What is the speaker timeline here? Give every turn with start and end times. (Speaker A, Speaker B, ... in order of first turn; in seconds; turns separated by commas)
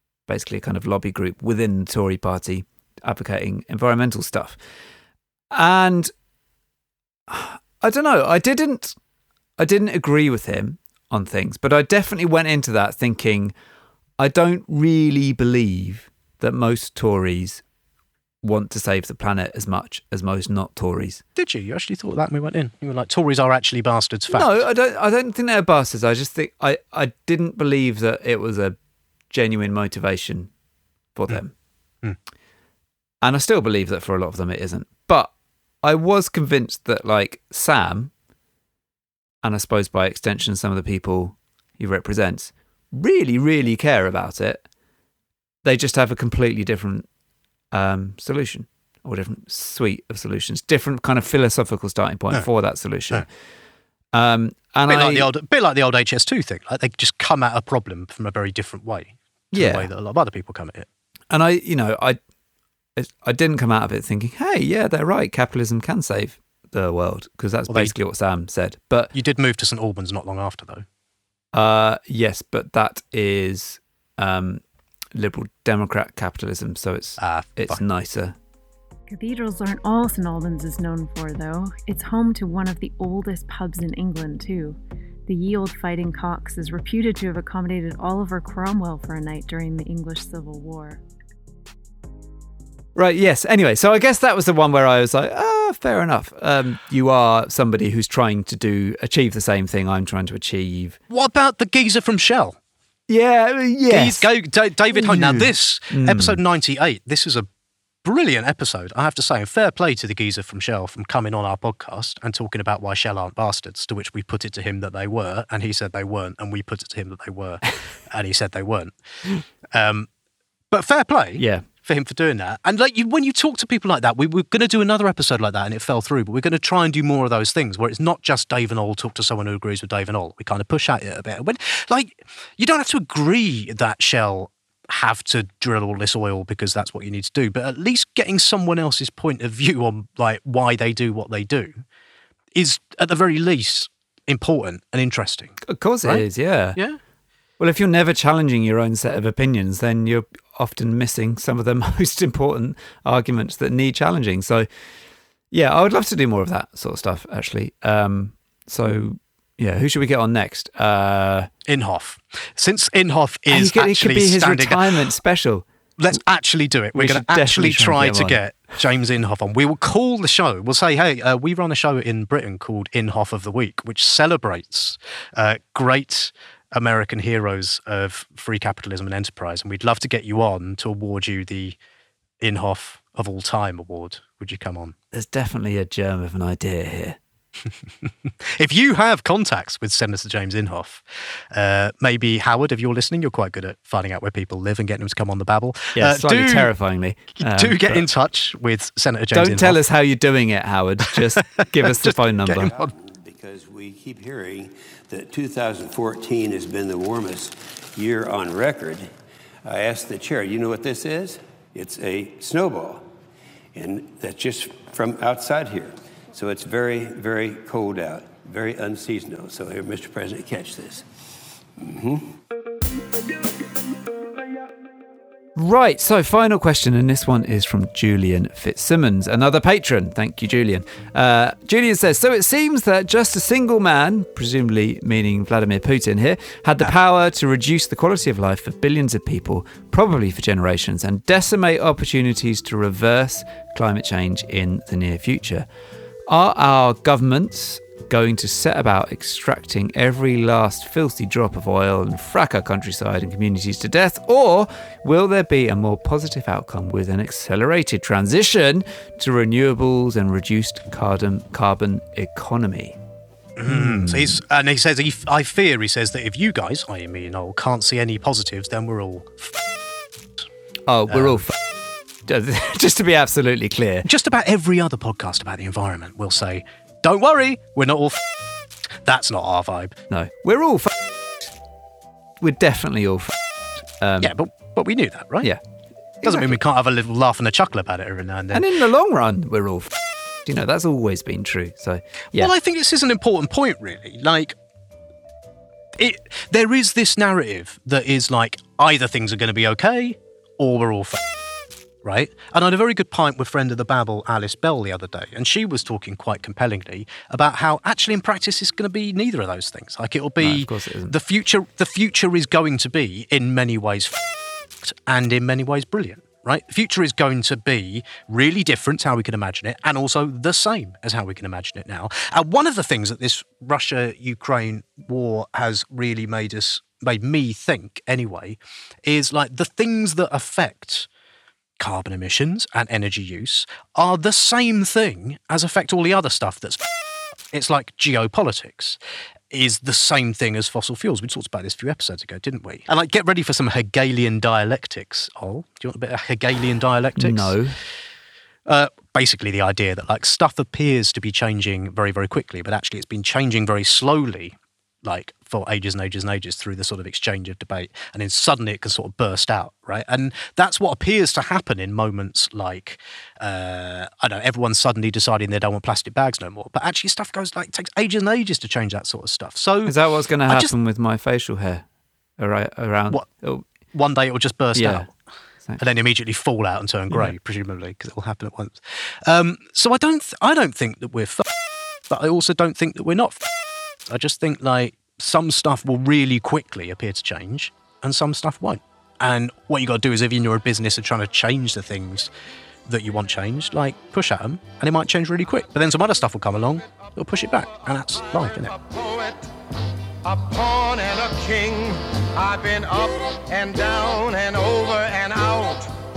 Speaker A: 0.3-4.6, Speaker A: 5.5-6.1, Speaker A: 7.3-9.0, Speaker A: 9.6-13.5, Speaker A: 14.2-17.6, Speaker A: 18.4-21.2, Speaker B: 21.4-24.6, Speaker A: 24.3-28.8, Speaker A: 29.3-30.5, Speaker A: 31.1-31.5, Speaker A: 33.2-35.3, Speaker A: 35.8-38.1, Speaker A: 39.4-44.6, Speaker A: 45.6-47.1, Speaker A: 47.7-53.3, Speaker A: 54.1-55.3, Speaker B: 54.9-60.9, Speaker A: 59.5-59.9, Speaker A: 61.3-62.2, Speaker A: 63.0-69.1, Speaker B: 67.7-68.0, Speaker B: 69.1-70.8, Speaker A: 71.5-74.6, Speaker A: 75.2-78.4, Speaker B: 77.2-77.8, Speaker C: 79.1-91.0, Speaker A: 93.0-101.0, Speaker B: 101.1-102.6, Speaker A: 103.1-104.3, Speaker B: 103.9-107.5, Speaker A: 104.9-106.4, Speaker B: 108.0-119.0, Speaker B: 119.6-120.1, Speaker B: 120.7-141.8, Speaker A: 121.4-121.7, Speaker B: 142.5-147.0, Speaker A: 145.7-146.8, Speaker A: 147.6-154.7, Speaker A: 155.5-161.5, Speaker B: 161.7-165.0, Speaker A: 163.5-165.7, Speaker B: 166.0-181.8, Speaker A: 166.9-168.4, Speaker B: 182.4-184.9, Speaker A: 185.1-187.2, Speaker B: 188.0-196.7, Speaker A: 195.9-198.1, Speaker B: 197.4-199.8, Speaker A: 199.3-202.7, Speaker B: 201.2-202.9, Speaker D: 202.7-209.1, Speaker D: 209.7-213.0, Speaker D: 213.7-221.1, Speaker D: 221.8-222.2, Speaker A: 225.6-245.7, Speaker A: 246.3-263.0, Speaker B: 263.6-269.6, Speaker A: 263.7-264.4, Speaker A: 270.9-271.6, Speaker B: 271.1-271.4, Speaker A: 272.3-274.1, Speaker B: 274.1-278.2, Speaker B: 279.0-280.0, Speaker A: 280.1-281.5, Speaker A: 282.4-283.3, Speaker A: 284.0-284.3, Speaker B: 284.2-285.5, Speaker A: 286.2-286.6, Speaker B: 286.2-288.7, Speaker A: 288.5-289.9, Speaker A: 290.5-292.5, Speaker B: 292.3-294.6, Speaker B: 296.0-301.2, Speaker B: 302.0-314.2, Speaker A: 310.4-311.1, Speaker B: 314.8-331.1, Speaker B: 331.8-336.9, Speaker B: 337.5-339.0, Speaker B: 339.5-347.6, Speaker A: 347.2-347.8, Speaker B: 348.7-370.7, Speaker A: 369.9-371.8, Speaker A: 372.4-373.6, Speaker B: 373.9-375.1, Speaker A: 374.8-375.1, Speaker B: 375.8-381.5, Speaker B: 382.1-383.5, Speaker B: 384.1-392.3, Speaker B: 392.9-398.8, Speaker E: 398.8-399.4, Speaker E: 400.2-405.9